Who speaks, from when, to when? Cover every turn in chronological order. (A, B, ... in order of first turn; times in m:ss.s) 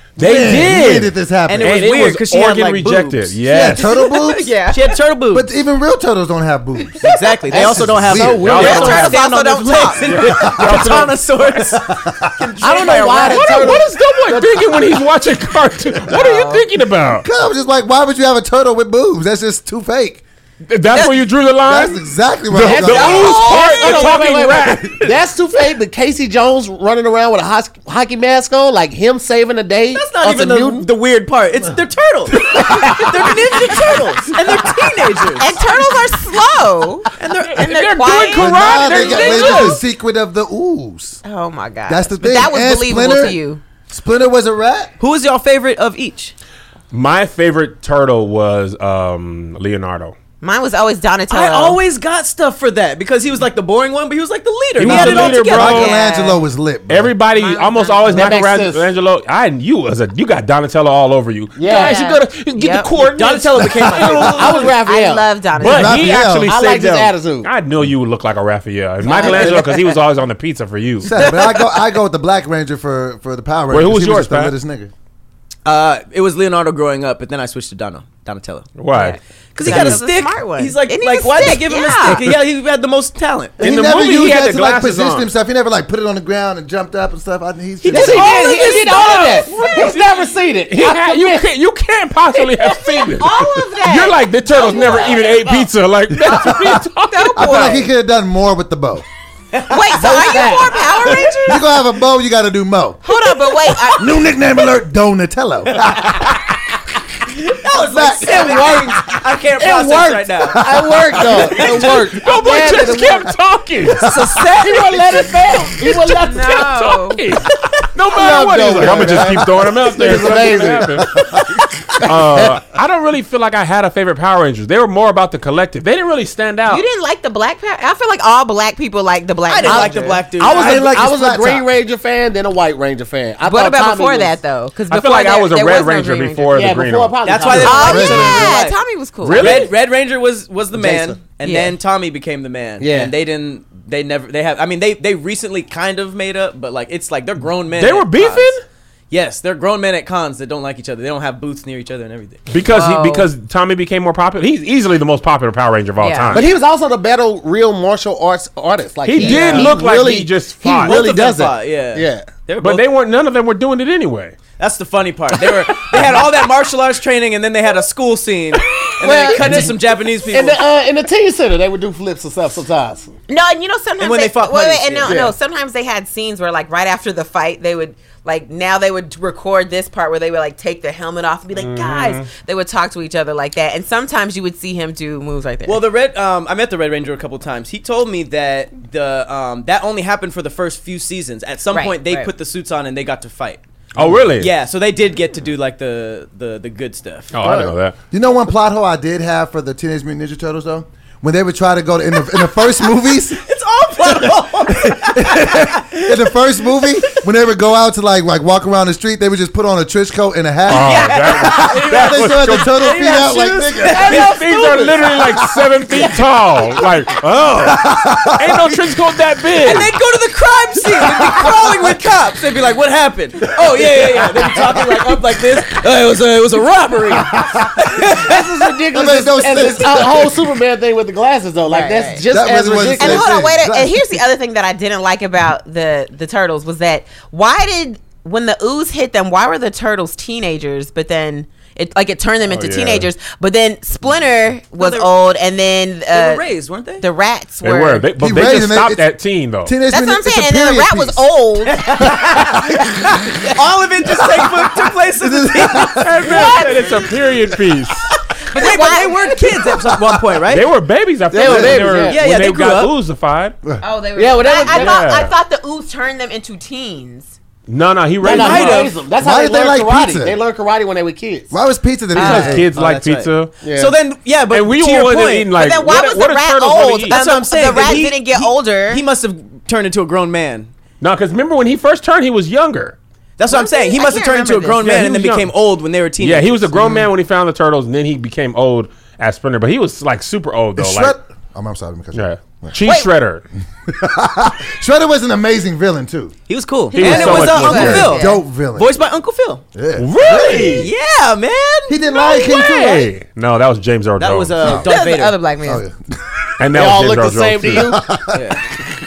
0:00.2-0:01.8 A
0:00.2-0:04.0 B
0:01.4-0:03.4 C
0:03.5-0:04.6 A
0:03.7-0:04.8 D
0:04.7-0:05.5 C
0:05.3-0:08.5 A
0:07.0-0:11.9 C
0:07.5-0:09.2 E
0:08.4-0:09.2 B
0:08.6-0:10.3 D
0:10.0-0:11.7 B
0:10.2-0:10.9 A
0:11.7-0:12.4 A
0:12.4-0:13.8 D
0:12.4-0:13.4 C
0:12.6-0:15.0 E
0:13.3-0:17.3 B
0:16.1-0:16.7 D
0:17.2-0:20.2 A
0:20.7-0:25.2 B
0:20.9-0:21.2 D
0:21.6-0:23.4 A
0:22.6-0:30.8 E
0:22.9-0:24.2 D
0:29.9-0:35.6 C
0:32.5-0:33.1 E
0:35.4-0:39.8 D
0:37.2-0:37.8 C
0:37.4-0:39.8 B
0:38.3-0:41.2 A
0:41.2-0:43.6 D
0:41.9-0:43.4 A
0:43.9-0:44.9 A
0:45.0-0:46.3 C
0:46.9-0:50.1 B
0:50.4-0:51.8 D
0:51.3-0:55.8 C
0:54.8-0:55.9 B
0:54.8-0:56.4 D
0:54.9-0:57.1 A
0:56.9-1:04.6 B
0:57.3-0:58.4 D
0:58.1-0:58.9 E
1:01.6-1:02.0 E
1:01.6-1:02.9 D
1:03.0-1:04.8 C
1:04.3-1:05.3 E
1:04.8-1:06.2 D
1:05.6-1:11.1 B
1:05.6-1:06.5 A
1:06.4-1:07.5 E
1:09.0-1:09.9 D
1:09.0-1:09.8 E
1:11.0-1:14.9 A
1:13.7-1:14.5 B
1:15.6-1:18.7 C
1:18.8-1:19.2 B
1:18.9-1:22.3 D
1:19.5-1:23.6 C
1:19.6-1:20.0 A
1:23.6-1:28.4 A
1:23.6-1:25.3 B
1:27.9-1:31.5 E
1:27.9-1:30.2 D
1:27.9-1:30.0 B
1:30.7-1:37.8 B
1:32.6-1:35.6 D
1:34.7-1:35.5 E
1:36.1-1:36.8 A
1:37.1-1:37.9 D
1:37.4-1:39.0 A
1:39.5-1:41.6 C
1:39.7-1:41.6 D
1:39.9-1:41.1 E
1:41.4-1:43.0 A
1:43.0-1:44.3 D
1:44.0-1:46.3 A
1:47.4-1:50.6 C
1:47.7-1:48.8 A
1:48.2-1:49.0 E
1:49.6-1:53.3 E
1:50.4-1:51.6 A
1:51.3-1:51.6 C
1:51.5-1:54.4 B
1:54.0-1:56.7 E
1:55.9-2:01.2 B
1:56.1-1:57.4 D
1:58.1-2:02.6 E
1:58.8-2:01.6 A
2:02.0-2:06.8 B
2:06.7-2:10.2 D
2:09.5-2:10.8 C
2:09.6-2:14.3 E
2:10.4-2:11.6 A
2:13.4-2:16.8 D
2:14.9-2:17.2 B
2:16.5-2:18.1 E
2:17.2-2:28.5 C
2:17.5-2:18.5 A
2:17.5-2:19.6 D
2:19.2-2:19.7 B
2:20.8-2:21.2 E
2:21.4-2:21.7 D
2:22.8-2:23.1 E
2:27.8-2:28.6 B
2:29.1-2:32.5 C
2:32.5-2:36.5 B
2:32.7-2:33.3 D
2:36.0-2:36.4 D
2:36.3-2:42.3 E
2:39.0-2:41.0 B
2:39.2-2:39.7 D
2:39.2-2:39.7 C
2:40.8-2:42.8 C
2:42.6-2:44.4 B
2:44.6-2:50.6 C
2:49.0-2:49.8 E
2:50.3-2:53.1 E
2:53.3-3:05.8 D
2:54.0-2:55.2 C
2:55.0-2:55.3 E
3:01.6-3:02.3 B
3:05.6-3:13.6 C
3:11.7-3:12.3 D
3:14.0-3:14.5 B
3:14.4-3:17.4 C
3:17.3-3:18.0 B
3:18.1-3:23.4 A
3:23.3-3:26.2 C
3:24.0-3:34.2 A
3:30.7-3:32.8 B
3:30.7-3:34.4 C
3:33.9-3:35.3 E
3:34.0-3:39.9 B
3:37.6-3:38.8 A
3:39.6-3:48.5 C
3:41.0-3:41.9 A
3:43.6-3:45.1 A
3:47.3-3:47.7 A
3:48.1-3:53.3 E
3:48.9-3:50.4 A
3:51.7-3:52.2 D
3:52.3-3:54.2 A
3:53.0-4:06.4 D
4:02.5-4:03.1 B
4:04.8-4:05.1 C
4:06.1-4:07.0 C
4:07.0-4:08.1 D
4:07.6-4:09.8 B
4:08.2-4:09.0 A
4:09.6-4:11.2 A
4:09.9-4:12.1 D
4:11.7-4:17.0 C
4:12.4-4:12.7 A
4:15.2-4:16.3 A
4:16.0-4:18.1 B
4:16.2-4:17.1 D
4:18.5-4:19.5 D
4:18.5-4:20.7 C
4:20.5-4:23.6 B
4:21.3-4:22.2 E
4:21.4-4:21.8 A
4:22.0-4:22.9 C
4:23.8-4:27.3 D
4:24.2-4:25.1 E
4:24.6-4:25.3 B
4:27.7-4:28.9 B
4:28.2-4:28.9 C
4:28.2-4:31.5 E
4:29.2-4:30.4 A
4:31.5-4:32.7 A
4:32.1-4:33.5 B
4:32.2-4:35.5 C
4:32.2-4:32.5 D
4:33.6-4:33.9 E
4:34.5-4:37.2 B
4:35.5-4:39.0 D
4:37.1-4:40.7 C
4:41.0-4:43.0 B
4:43.4-4:46.7 C
4:43.5-4:44.9 D
4:44.8-4:45.5 B
4:46.2-4:51.2 B
4:46.8-4:47.1 A
4:50.8-4:52.8 A
4:52.1-4:53.4 B
4:52.8-4:53.1 D
4:53.9-4:56.3 A
4:56.5-4:59.6 C
4:56.9-4:58.2 B
4:56.9-4:58.4 D
4:57.6-4:58.9 A
4:59.7-5:00.9 A
5:00.0-5:00.9 B
5:00.5-5:02.0 C
5:01.9-5:03.1 A
5:02.1-5:03.1 D
5:02.4-5:04.8 B
5:04.2-5:05.4 C
5:04.6-5:04.9 A
5:04.8-5:05.8 D
5:05.6-5:06.4 A
5:06.6-5:08.0 B
5:06.7-5:08.0 E
5:07.7-5:08.6 A
5:08.3-5:08.6 C